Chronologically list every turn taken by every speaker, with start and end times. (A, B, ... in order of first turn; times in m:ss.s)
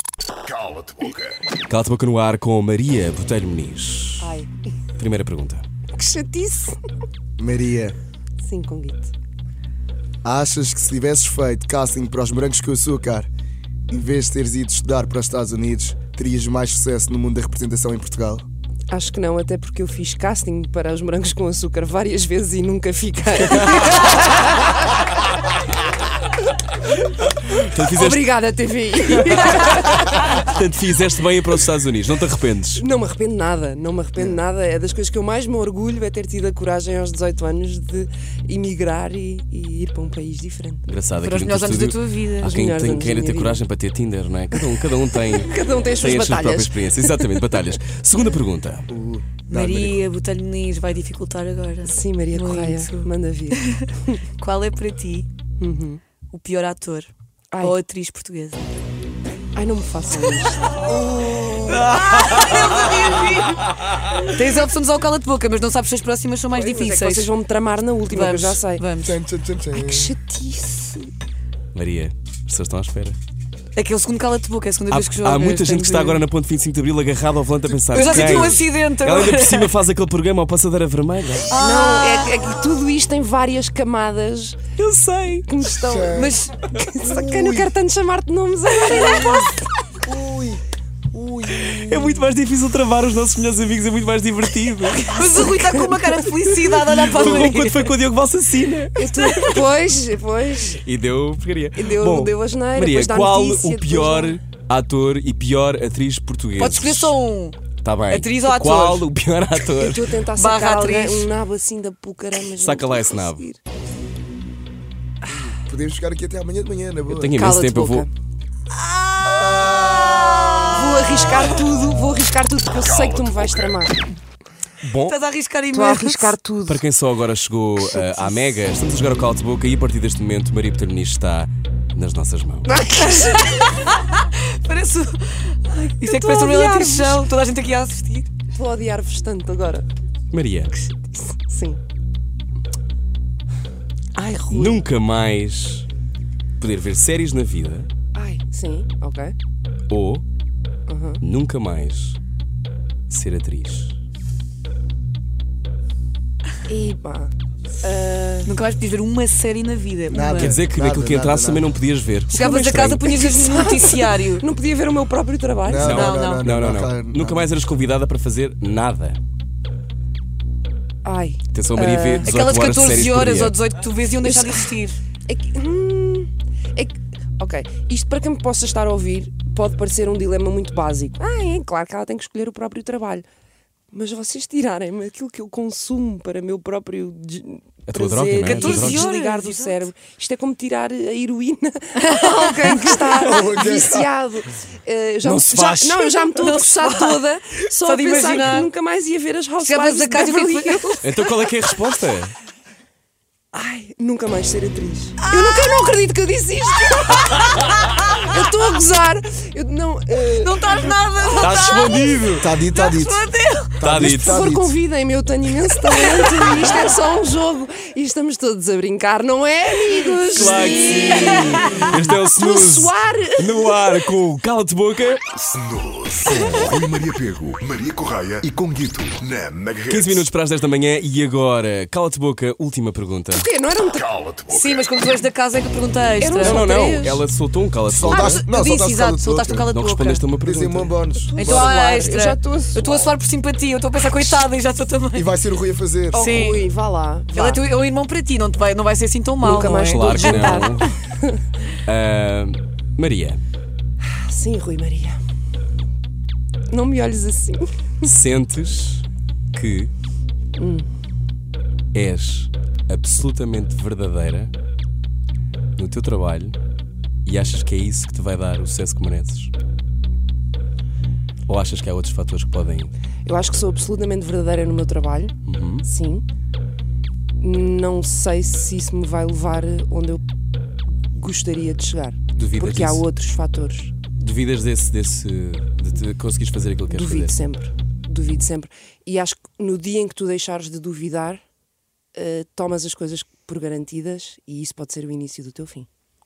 0:00.4-0:01.4 A
0:01.7-0:04.4 B
0:04.2-0:04.5 C
0:05.0-0:05.6 B
0:06.0-0:06.8 C
0:07.4-0:08.0 D
0:08.4-0:09.1 C
0:10.2-0:13.3 D
0:13.9-0:18.4 D
0:18.9-0:24.7 C
0:27.5-0:28.3 B
0:27.6-0:30.5 C
0:29.2-0:29.6 B
0:30.1-0:32.8 B
0:32.8-0:40.8 C
0:40.9-0:48.9 B
0:41.2-0:42.6 E
0:42.4-0:43.6 C
0:45.2-0:47.6 C
0:48.9-0:50.0 D
0:49.5-0:55.3 E
0:51.8-0:54.2 C
0:55.6-0:56.0 C
0:56.3-0:58.8 E
0:57.5-0:57.8 C
0:59.6-1:01.0 C
1:01.3-1:07.3 E
1:01.4-1:02.9 B
1:06.5-1:08.8 C
1:08.1-1:09.2 E
1:09.0-1:10.2 D
1:09.7-1:11.1 C
1:11.7-1:13.2 B
1:13.8-1:16.2 E
1:14.9-1:21.5 B
1:17.9-1:19.7 E
1:21.5-1:22.5 E
1:21.6-1:24.6 C
1:24.8-1:25.5 B
1:25.5-1:29.6 C
1:25.9-1:26.4 D
1:26.1-1:26.7 E
1:27.0-1:27.7 D
1:29.1-1:29.4 D
1:30.0-1:32.2 D
1:31.7-1:35.5 B
1:35.1-1:38.0 E
1:35.4-1:36.1 C
1:37.1-1:39.6 B
1:37.2-1:37.5 C
1:39.0-1:40.8 C
1:40.8-1:47.1 B
1:41.7-1:44.4 C
1:46.6-1:47.6 E
1:47.8-1:50.1 B
1:48.1-1:49.1 E
1:49.6-1:53.6 C
1:50.4-1:51.3 E
1:52.6-1:53.5 B
1:55.3-1:57.5 D
1:57.1-1:58.1 B
1:57.3-1:58.1 C
1:59.1-2:00.7 E
2:00.6-2:04.0 C
2:02.8-2:03.6 A
2:04.8-2:05.2 B
2:05.1-2:06.3 E
2:05.7-2:06.8 C
2:06.7-2:12.7 B
2:07.8-2:08.4 C
2:12.7-2:13.8 C
2:13.0-2:18.3 E
2:16.0-2:17.3 C
2:18.5-2:19.9 C
2:20.3-2:20.8 B
2:20.8-2:21.8 C
2:24.2-2:24.9 C
2:24.5-2:25.9 B
2:26.6-2:27.9 B
2:28.1-2:29.4 C
2:29.9-2:30.2 B
2:30.9-2:31.2 C
2:31.2-2:32.2 B
2:33.1-2:34.0 B
2:36.7-2:38.6 C
2:38.4-2:40.6 E
2:40.1-2:41.7 D
2:40.2-2:43.1 B
2:42.3-2:44.4 E
2:42.5-2:45.9 C
2:45.7-2:47.6 D
2:45.8-2:49.2 B
2:45.9-2:46.5 E
2:51.0-2:52.4 C
2:51.5-2:53.6 B
2:52.2-2:55.0 E
2:54.2-2:54.7 C
2:55.3-3:03.2 C
3:03.9-3:21.2 C
3:07.9-3:09.1 B
3:08.4-3:09.9 E
3:12.0-3:13.1 E
3:13.2-3:14.1 D
3:15.2-3:16.2 B
3:16.2-3:17.3 E
3:17.8-3:18.7 E
3:19.6-3:21.1 E
3:21.0-3:22.3 B
3:23.5-3:31.5 C
3:25.2-3:25.9 E
3:26.8-3:27.6 E
3:30.3-3:33.8 E
3:31.4-3:32.5 B
3:32.4-3:34.7 D
3:33.8-3:34.5 B
3:34.0-3:44.0 C
3:35.8-3:36.8 E
3:40.2-3:45.2 B
3:40.5-3:41.9 E
3:45.4-3:50.3 A
3:49.9-3:53.5 B
3:53.3-3:54.1 C
3:53.9-3:54.9 A
3:54.5-3:56.8 E
3:56.2-3:57.2 C
3:56.4-3:58.4 B
3:57.9-3:59.7 D
3:58.0-4:00.2 E
3:59.7-4:01.0 B
4:00.4-4:01.8 D
4:01.3-4:03.1 C
4:01.4-4:05.3 E
4:04.0-4:04.4 C
4:05.1-4:06.3 D
4:06.1-4:06.7 E
4:06.1-4:07.6 C
4:07.3-4:10.8 E
4:09.4-4:11.4 C
4:09.8-4:11.0 B
4:11.8-4:13.4 B
4:14.1-4:15.2 C
4:16.7-4:18.1 C
4:18.0-4:19.9 B
4:20.6-4:20.9 C
4:21.9-4:24.5 B
4:25.8-4:26.6 B
4:27.2-4:29.5 B
4:31.5-4:32.9 B
4:33.2-4:36.2 C
4:35.4-4:35.9 B
4:37.4-4:40.2 C
4:41.0-4:43.9 C
4:42.3-4:43.1 B
4:44.2-4:47.4 B
4:46.9-4:51.4 C
4:52.2-4:55.9 C